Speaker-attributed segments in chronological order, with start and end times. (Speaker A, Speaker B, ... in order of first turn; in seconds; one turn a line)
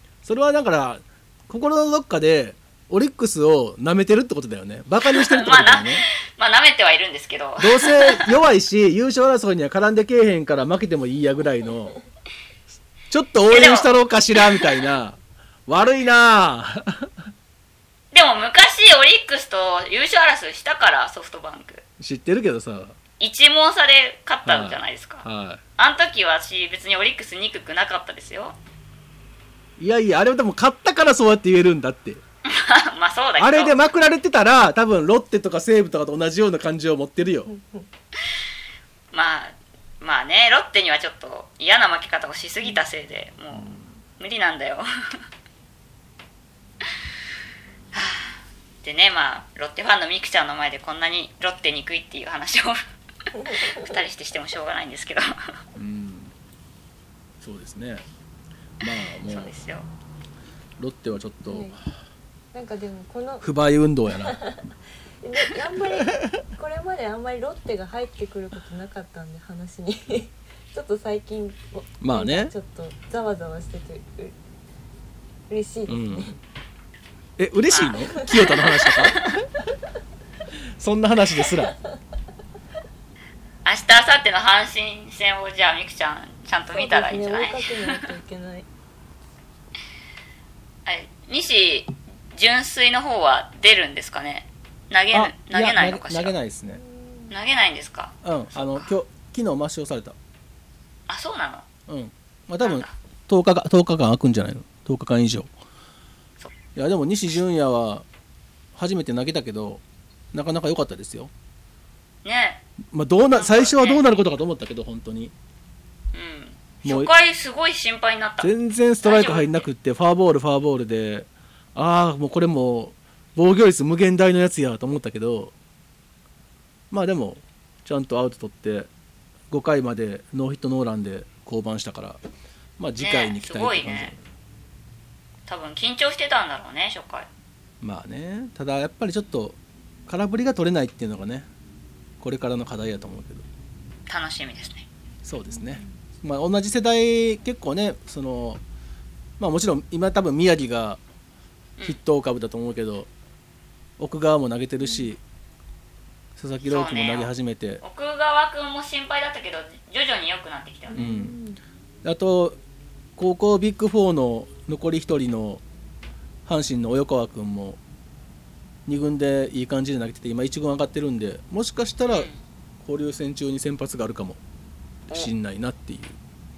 Speaker A: 0.2-6.0
Speaker B: 5.0-8.3
Speaker A: 7.6-12.0
Speaker A: 13.1-17.1
Speaker B: 13.5-14.0
Speaker B: 18.1-21.8
Speaker A: 22.0-22.9
Speaker B: 23.2-25.2
Speaker A: 24.4-25.6
Speaker B: 25.8-28.6
Speaker A: 29.8-32.2
Speaker B: 32.4-33.8
Speaker A: 33.4-37.5
Speaker C: 37.5-37.8
Speaker B: 39.1-44.9
Speaker A: 43.5-43.9
Speaker B: 47.9-52.8
Speaker B: 53.3-55.3
Speaker A: 55.7-56.3
Speaker A: 57.4-58.0
Speaker A: 58.8-59.5
Speaker B: 59.2-59.9
Speaker A: 60.8-61.8
Speaker C: 61.5-61.8
Speaker C: 62.5-63.4
Speaker A: 63.4-64.4
Speaker C: 64.2-64.6
Speaker C: 65.2-74.3
Speaker A: 72.0-72.5
Speaker C: 75.5-76.3
Speaker A: 75.9-76.4
Speaker A: 77.4-79.3
Speaker B: 77.7-78.5
Speaker A: 80.8-81.8
Speaker B: 83.6-88.0
Speaker C: 86.7-88.7
Speaker B: 90.8-96.3
Speaker A: 95.1-96.8
Speaker C: 96.8-97.3
Speaker B: 97.3-98.9
Speaker A: 98.2-100.2
Speaker B: 101.1-101.7
Speaker A: 101.9-105.5
Speaker B: 102.6-102.9
Speaker A: 106.7-108.0
Speaker A: 108.7-109.8
Speaker A: 110.3-111.3
Speaker B: 112.2-112.6
Speaker A: 112.9-115.3
Speaker B: 113.3-114.1
Speaker B: 116.1-118.5
Speaker A: 116.8-117.1
Speaker A: 118.4-125.5
Speaker B: 119.0-119.7
Speaker A: 126.9-128.9
Speaker A: 129.5-132.2
Speaker A: 132.8-134.2
Speaker B: 133.0-134.1
Speaker B: 135.5-137.3
Speaker A: 137.8-141.5
Speaker A: 142.2-143.4
Speaker B: 144.1-144.9
Speaker A: 145.2-148.6
Speaker C: 145.5-145.9
Speaker A: 149.4-151.0
Speaker A: 151.8-153.1
Speaker A: 154.0-155.2
Speaker C: 154.8-155.1
Speaker A: 156.3-157.8
Speaker B: 156.6-161.1
Speaker C: 160.9-161.6
Speaker A: 160.9-161.4
Speaker A: 162.0-162.6
Speaker A: 163.2-165.6
Speaker A: 166.4-167.8
Speaker A: 168.9-172.3
Speaker B: 172.1-172.4
Speaker A: 172.8-174.4
Speaker A: 175.1-176.2